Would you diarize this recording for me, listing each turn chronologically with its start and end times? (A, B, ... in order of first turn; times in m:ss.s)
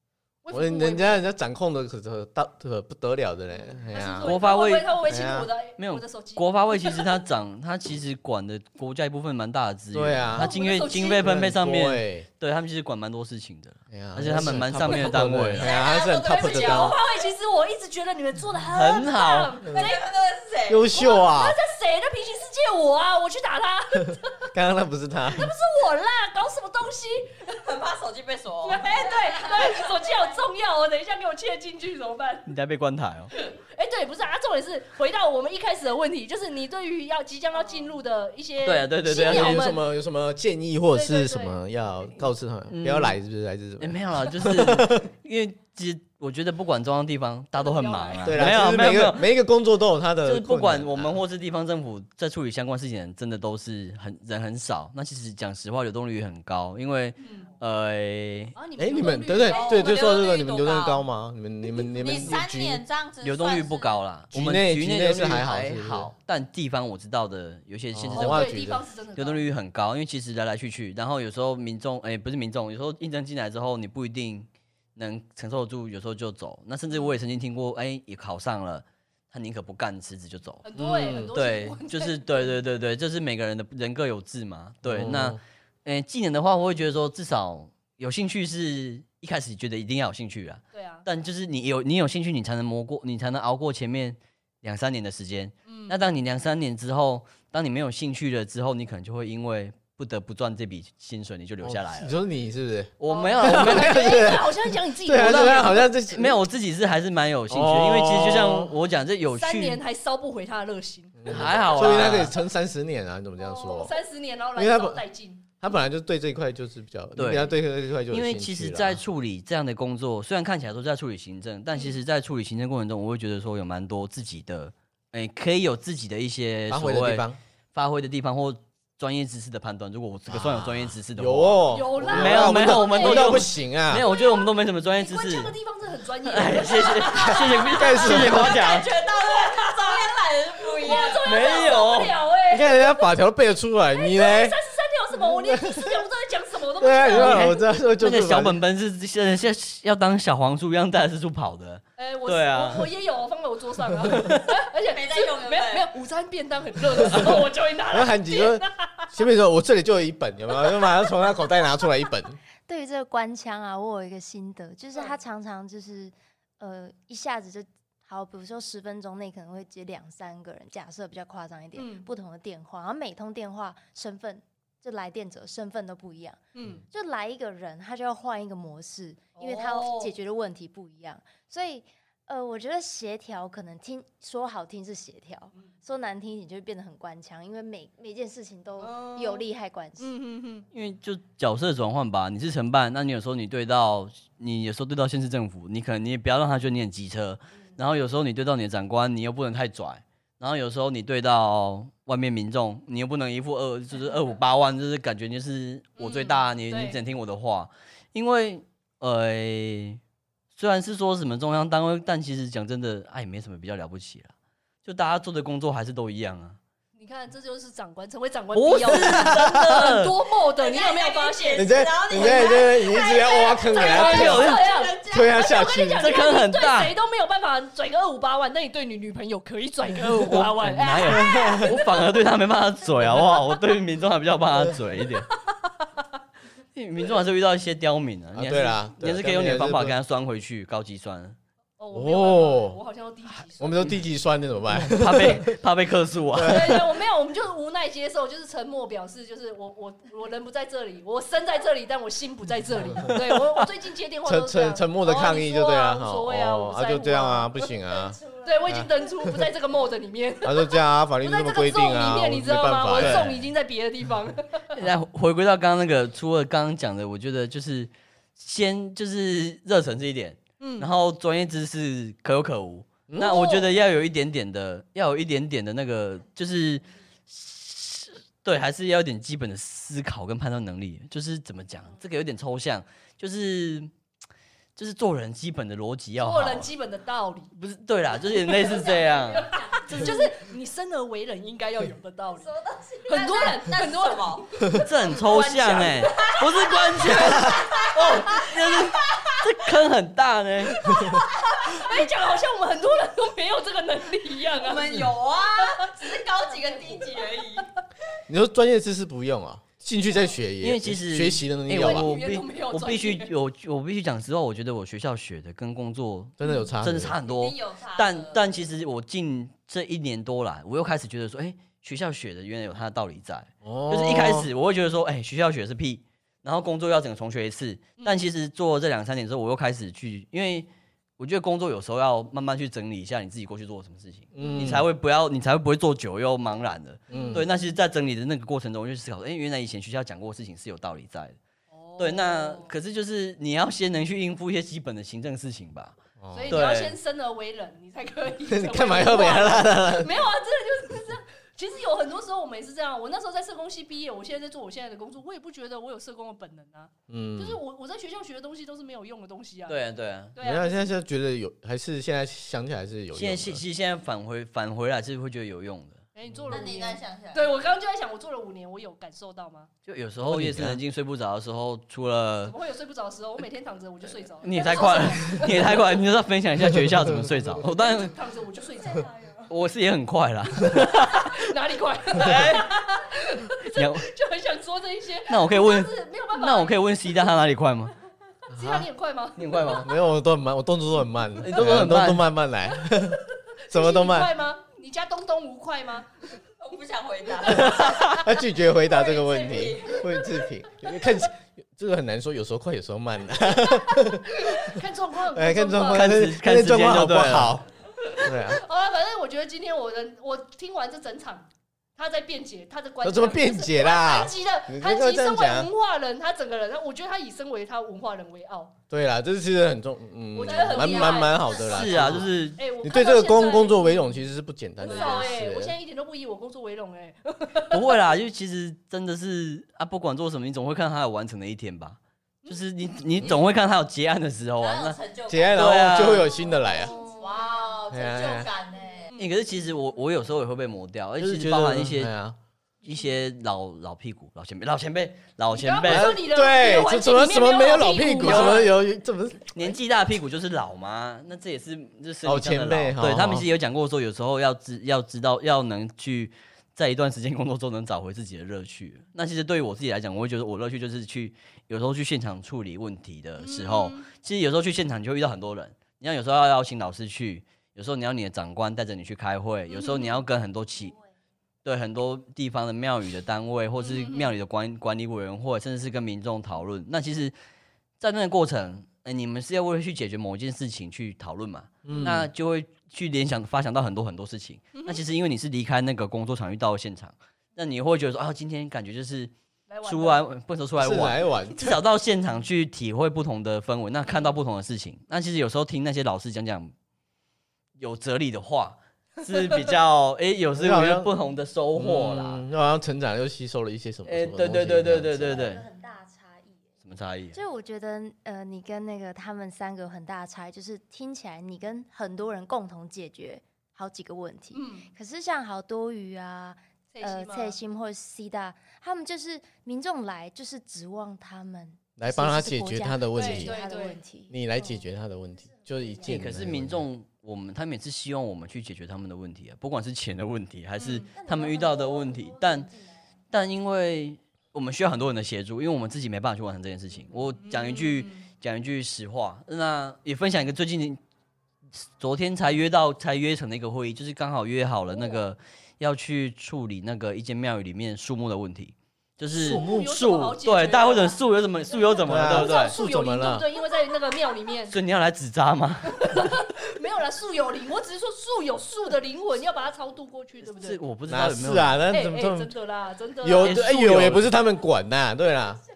0:00.4-0:01.2 A
0:00.5-0:04.4 B
0:03.9-0:07.0 A
0:04.2-0:05.0 C
0:05.0-0:05.5 B
0:05.8-0:15.7 C
0:09.9-0:10.5 B
0:10.3-0:11.2 A
0:11.2-0:12.2 B
0:13.9-0:17.0 B
0:15.6-0:17.1 D
0:16.2-0:20.0 A
0:18.7-0:19.6 C
0:19.7-0:20.9 D
0:20.7-0:21.6 B
0:20.9-0:24.4 A
0:24.5-0:25.5 B
0:25.3-0:27.5 A
0:27.5-0:30.4 D
0:28.6-0:32.5 A
0:32.5-0:33.3 C
0:33.4-0:39.8 A
0:38.6-0:39.7 C
0:39.0-0:45.1 B
0:40.9-0:41.6 A
0:42.7-0:43.2 C
0:43.8-0:49.3 C
0:47.6-0:48.5 A
0:48.2-0:51.2 B
0:50.2-0:58.5 C
0:57.2-0:57.5 A
0:58.5-1:00.0 A
0:58.8-1:02.8 B
0:59.4-1:01.0 D
1:01.8-1:04.0 D
1:03.2-1:08.6 C
1:04.3-1:06.1 B
1:07.9-1:08.8 B
1:08.1-1:09.4 A
1:09.2-1:20.6 C
1:20.6-1:22.5 A
1:20.7-1:21.3 B
1:21.3-1:42.1 C
1:24.8-1:25.4 B
1:30.7-1:31.0 A
1:35.6-1:36.0 A
1:41.6-1:46.4 B
1:43.0-1:44.4 C
1:43.1-1:45.9 A
1:45.2-1:49.8 C
1:47.5-1:48.7 B
1:49.3-1:52.3 A
1:51.2-1:53.9 B
1:51.3-1:52.3 C
1:53.4-1:55.5 A
1:54.5-1:55.0 B
1:55.6-1:59.0 B
1:57.2-1:57.5 C
1:58.1-2:15.5 C
2:06.7-2:07.4 B
2:10.3-2:14.0 B
2:11.7-2:13.5 A
2:14.0-2:18.2 A
2:16.2-2:18.9 C
2:17.5-2:18.5 B
2:17.8-2:21.8 D
2:20.8-2:23.0 A
2:21.2-2:22.1 C
2:22.5-2:24.6 B
2:23.9-2:27.6 A
2:25.2-2:26.0 B
2:26.8-2:28.6 B
2:27.1-2:32.9 C
2:32.0-2:39.1 A
2:34.8-2:35.9 D
2:37.0-2:42.4 B
2:42.6-2:56.4 E
2:51.7-2:52.1 A
2:56.5-2:56.8 A
2:56.9-3:10.1 E
2:59.4-3:00.1 A
3:08.8-3:09.4 A
3:10.0-3:10.6 A
3:10.7-3:30.0 C
3:26.0-3:27.0 A
3:30.5-3:34.3 C
3:34.8-3:36.6 C
3:37.0-3:42.8 A
3:38.5-3:40.1 C
3:39.0-3:39.6 B
3:40.6-3:45.9 D
3:41.5-3:44.6 B
3:43.7-3:52.0 A
3:44.1-3:44.6 C
3:45.1-3:46.0 B
3:46.0-3:46.9 C
3:50.1-3:55.3 C
3:51.2-3:51.6 B
3:55.4-3:56.0 A
3:56.7-4:01.4 C
3:58.3-3:59.9 B
4:01.8-4:04.0 A
4:01.9-4:02.8 B
4:03.6-4:05.6 B
4:04.7-4:06.9 C
4:06.3-4:06.7 B
4:06.4-4:17.7 A
4:13.1-4:13.6 C
4:14.2-4:19.4 B
4:18.3-4:24.8 A
4:20.4-4:23.4 B
4:23.0-4:23.3 C
4:24.7-4:43.9 C
4:30.6-4:30.9 A
4:33.1-4:33.4 B
4:33.2-4:33.7 A
4:44.8-4:46.7 C
4:46.2-4:47.5 A
4:47.5-4:49.5 C
4:48.3-4:52.5 A
4:48.5-4:50.3 D
4:52.4-4:54.5 D
4:53.1-4:57.7 A
4:54.8-5:01.0 C
4:55.3-4:59.4 D
5:00.8-5:05.9 A
5:01.0-5:02.0 D
5:04.6-5:07.6 D
5:08.3-5:12.1 B
5:10.6-5:41.4 C
5:11.8-5:13.3 A
5:16.4-5:17.1 B
5:16.4-5:16.7 A
5:17.2-5:18.4 D
5:23.6-5:24.5 B
5:34.3-5:34.8 B
5:34.4-5:34.8 A
5:37.1-5:37.4 A
5:37.1-5:37.4 B
5:41.7-5:42.7 A
5:42.0-5:45.9 C
5:46.2-5:46.6 B
5:46.3-5:59.8 A
5:46.5-5:47.0 C
5:48.5-5:50.1 B
5:57.1-5:57.6 B
5:59.7-6:00.3 C
6:00.3-6:00.8 A
6:00.4-6:03.6 B
6:03.1-6:06.0 C
6:06.1-6:09.7 A
6:06.2-6:06.5 B
6:06.5-6:07.5 D
6:09.8-6:12.5 C
6:10.2-6:10.8 B
6:12.4-6:15.7 A
6:14.4-6:18.1 C
6:17.7-6:19.1 A
6:19.5-6:21.4 C
6:20.7-6:26.8 A
6:22.2-6:22.7 C
6:23.7-6:24.1 C
6:25.3-6:27.9 C
6:28.5-6:29.8 A
6:28.5-6:28.9 B
6:29.4-6:29.9 C
6:29.8-6:34.3 B
6:31.4-6:32.3 C
6:33.7-6:36.1 A
6:36.6-6:38.3 D
6:37.5-6:44.8 B
6:37.8-6:38.2 C
6:38.8-6:40.4 D
6:43.6-6:46.2 A
6:45.3-6:47.7 B
6:45.9-6:47.6 C
6:48.0-6:58.7 A
6:48.2-6:48.6 B
6:53.0-6:55.7 B
6:58.9-7:02.3 B
7:00.3-7:04.2 A
7:00.8-7:01.2 D
7:01.6-7:02.6 C
7:02.8-7:05.7 B
7:04.8-7:05.4 D
7:04.8-7:07.9 A
7:07.7-7:15.0 C
7:14.6-7:15.6 D
7:15.3-7:16.9 B
7:15.5-7:16.3 C
7:16.4-7:17.3 A
7:17.0-7:19.1 D
7:17.9-7:18.5 B
7:19.1-7:19.3 A
7:19.2-7:22.1 C
7:21.2-7:22.4 B
7:22.8-7:26.2 C
7:25.5-7:28.7 A
7:25.8-7:29.5 B
7:28.2-7:28.7 C
7:29.5-7:50.9 C
7:32.2-7:33.4 B
7:43.4-7:44.1 A
7:49.7-7:50.2 A
7:51.6-7:57.3 C
7:53.8-7:54.3 A
7:58.0-8:09.3 C
8:01.8-8:02.3 B
8:04.7-8:05.0 A
8:09.7-8:10.2 A
8:09.8-8:16.7 C
8:10.8-8:11.8 B
8:17.8-8:22.4 C
8:20.5-8:21.1 B
8:21.7-8:25.6 B
8:24.0-8:25.6 C
8:25.2-8:26.7 E
8:26.8-8:27.4 C
8:27.3-8:44.4 E
8:34.5-8:34.9 A
8:36.9-8:37.6 A
8:42.0-8:43.5 B
8:43.1-8:44.0 A
8:44.3-8:46.8 B
8:45.4-8:46.3 E
8:46.0-8:52.7 C
8:50.8-8:51.1 A
8:51.0-8:53.1 E
8:53.3-9:01.0 C
8:57.4-8:58.2 A
9:02.0-9:12.7 C
9:09.3-9:11.2 A
9:09.3-9:09.9 B
9:11.7-9:14.8 A
9:12.1-9:13.4 B
9:14.7-9:16.3 C
9:15.8-9:20.8 A
9:20.5-9:21.8 C
9:21.1-9:22.5 B
9:21.9-9:23.8 A
9:23.2-9:25.6 B
9:23.4-9:24.3 C